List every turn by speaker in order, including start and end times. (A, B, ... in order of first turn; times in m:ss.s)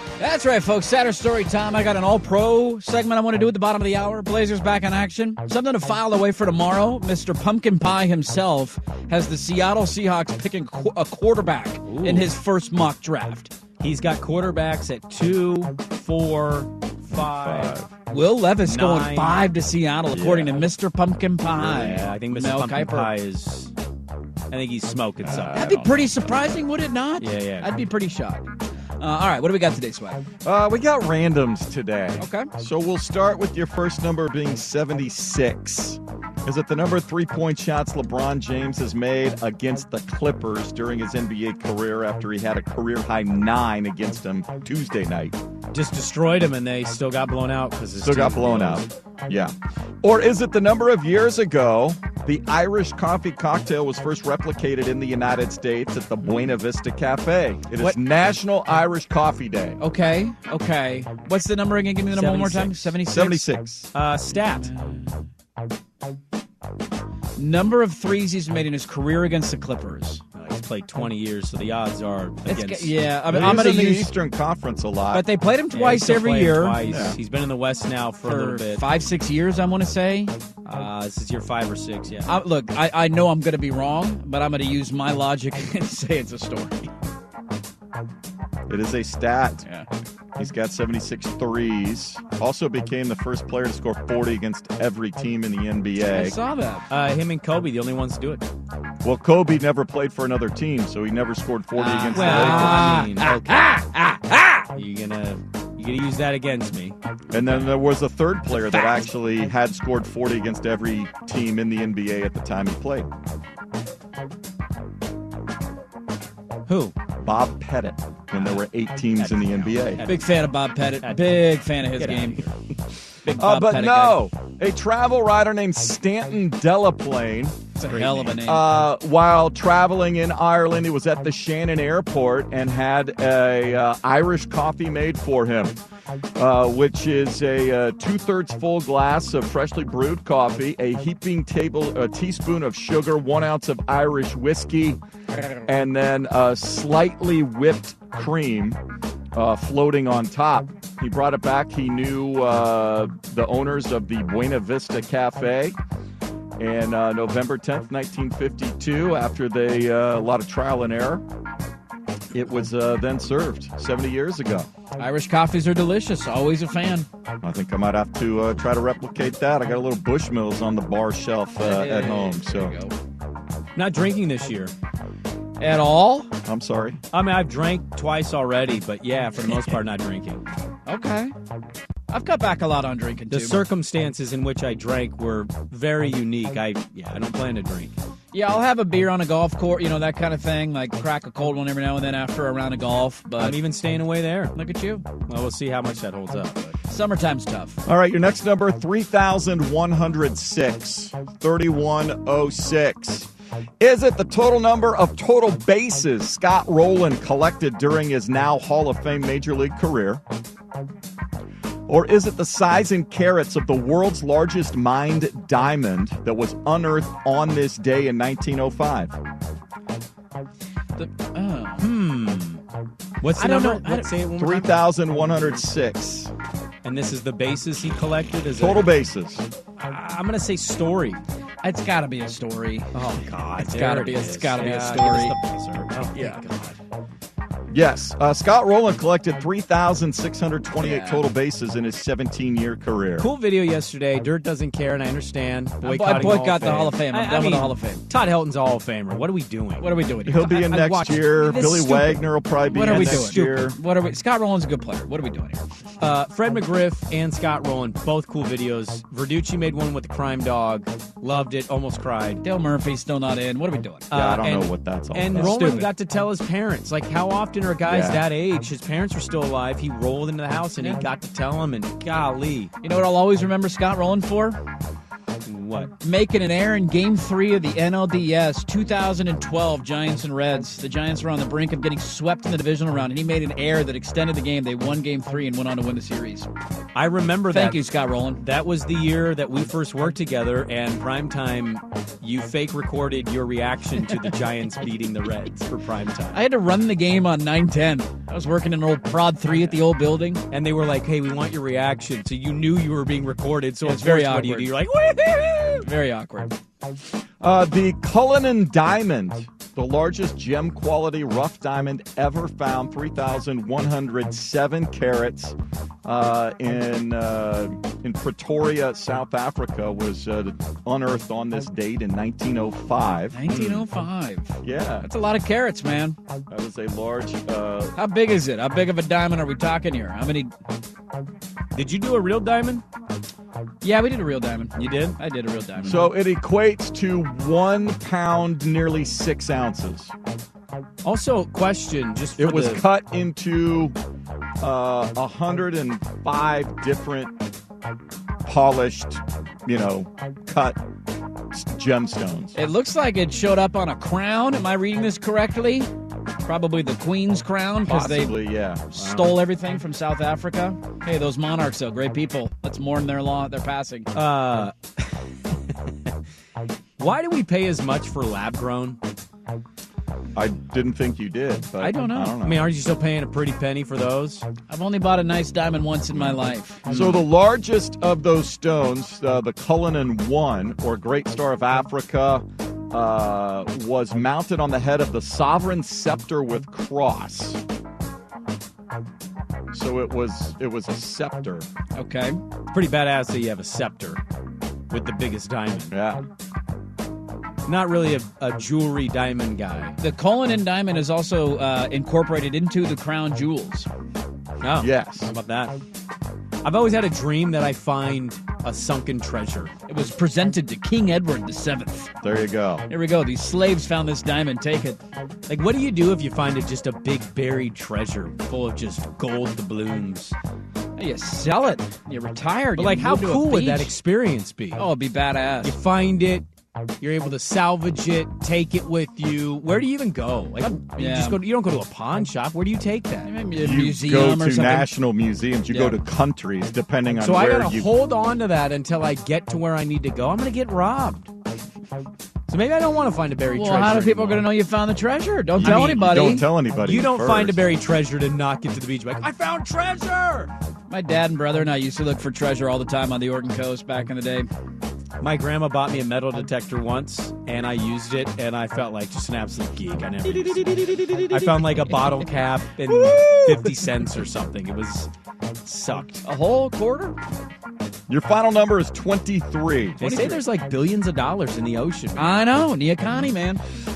0:00.2-0:13.5 A
0:11.8-0:12.3 B
0:13.8-0:17.8 B
0:17.1-0:17.9 C
0:18.1-0:23.1 A
0:18.6-0:19.5 B
0:20.2-0:20.5 C
0:21.6-0:23.7 B
0:24.5-0:25.8 B
0:25.2-0:26.1 C
0:25.5-0:30.2 A
0:27.2-0:27.7 B
0:30.4-0:45.4 C
0:32.2-0:32.5 A
0:45.7-0:48.9 B
0:48.0-0:59.8 C
0:59.8-1:03.4 A
1:02.1-1:02.9 B
1:03.1-1:03.9 C
1:03.9-1:04.7 B
1:04.3-1:05.2 A
1:07.4-1:10.2 A
1:10.3-1:13.5 B
1:12.5-1:14.1 A
1:13.3-1:15.2 C
1:15.1-1:16.8 A
1:15.7-1:18.8 B
1:16.8-1:17.2 C
1:18.2-1:20.3 A
1:20.6-1:22.4 B
1:22.3-1:26.9 A
1:28.7-1:29.6 C
1:30.4-1:36.4 C
1:36.1-1:36.8 A
1:36.9-1:38.5 B
1:39.0-1:43.0 C
1:41.8-1:44.6 A
1:42.1-1:43.8 B
1:44.7-1:47.0 B
1:47.3-1:53.1 C
1:56.7-1:56.9 B
1:57.2-2:00.0 C
1:58.3-1:58.6 B
1:59.2-2:00.4 B
2:00.0-2:02.4 A
2:01.0-2:02.5 B
2:03.2-2:04.2 A
2:03.4-2:07.6 C
2:07.8-2:08.6 A
2:07.9-2:08.4 B
2:08.4-2:15.7 C
2:16.4-2:25.0 C
2:25.6-2:28.8 C
2:29.3-2:35.8 C
2:36.6-2:41.2 C
2:42.3-2:44.7 C
2:45.0-2:47.1 A
2:47.4-2:52.7 C
2:51.6-2:52.9 A
2:53.8-2:54.7 B
2:55.6-2:56.3 A
2:56.4-2:57.0 C
2:57.1-3:00.4 B
3:00.8-3:01.3 A
3:02.1-3:03.6 A
3:03.3-3:07.9 B
3:08.3-3:13.6 A
3:13.4-3:14.5 B
3:14.5-3:15.0 A
3:15.2-3:16.8 B
3:16.9-3:17.8 A
3:17.9-3:23.3 C
3:23.8-3:30.2 C
3:31.9-3:39.2 C
3:41.0-3:41.9 A
3:41.8-3:42.6 B
3:43.2-3:45.6 B
3:43.4-3:44.1 A
3:44.4-3:46.3 C
3:46.8-3:49.0 B
3:48.6-3:49.4 C
3:49.8-3:51.2 B
3:51.6-3:53.0 A
3:52.9-3:56.8 B
3:53.6-3:55.3 A
3:56.1-3:56.4 A
3:57.7-4:03.3 C
4:00.8-4:01.2 A
4:03.2-4:13.7 B
4:05.8-4:08.0 A
4:09.8-4:10.5 A
4:10.2-4:13.8 C
4:12.7-4:15.6 A
4:16.0-4:22.4 B
4:22.4-4:24.1 A
4:24.1-4:32.7 B
4:24.1-4:25.8 C
4:25.3-4:25.9 A
4:27.8-4:28.2 C
4:32.8-4:34.6 A
4:35.4-4:35.9 B
4:36.0-4:46.5 A
4:46.9-4:56.4 B
4:47.5-4:48.4 A
4:56.3-5:00.4 A
4:59.5-4:59.8 B
5:00.5-5:05.9 B
5:03.8-5:04.7 A
5:05.8-5:06.5 A
5:07.4-5:23.4 C
5:23.3-5:26.2 A
5:23.5-5:23.8 B
5:24.6-5:25.0 C
5:26.5-5:27.9 C
5:27.9-5:30.5 A
5:31.7-5:32.8 B
5:33.8-5:36.1 A
5:34.8-5:35.2 B
5:35.8-5:40.1 C
5:41.0-5:42.8 B
5:42.4-5:43.9 C
5:44.6-5:47.4 C
5:48.4-5:50.8 C
5:51.5-5:52.5 C
5:52.5-5:55.9 A
5:56.4-6:04.1 A
5:57.8-5:58.8 C
5:59.0-5:59.4 B
6:04.1-6:05.2 B
6:07.0-6:09.0 B
6:10.4-6:12.7 C
6:11.8-6:12.3 A
6:12.4-6:14.4 B
6:14.7-6:16.8 A
6:16.8-6:27.6 C
6:16.9-6:17.2 B
6:29.7-6:31.7 C
6:31.9-6:32.4 A
6:32.7-6:34.2 B
6:34.9-6:35.9 B
6:35.9-6:36.2 C
6:37.6-6:40.0 B
6:40.0-6:43.9 A
6:44.6-6:45.8 B
6:44.8-6:45.3 C
6:46.6-6:49.7 B
6:49.9-6:52.1 A
6:52.2-6:52.8 C
6:52.9-6:55.0 A
6:55.5-7:00.3 B
7:01.0-7:03.9 A
7:02.8-7:04.9 B
7:04.8-7:05.8 A
7:05.6-7:06.4 B
7:07.0-7:13.3 B
7:10.6-7:11.4 A
7:13.2-7:14.9 A
7:13.6-7:17.9 C
7:15.7-7:16.0 A
7:17.2-7:21.3 B
7:22.5-7:24.5 B
7:23.5-7:26.5 A
7:25.6-7:27.6 C
7:25.6-7:26.2 B
7:26.8-7:30.5 B
7:30.9-7:34.5 A
7:35.2-7:45.1 B
7:40.3-7:42.3 A
7:42.9-7:43.7 A
7:45.6-7:46.2 B
7:46.2-7:47.2 A
7:48.1-7:50.0 C
7:50.0-7:52.5 B
7:50.0-7:50.4 A
7:52.2-7:53.6 A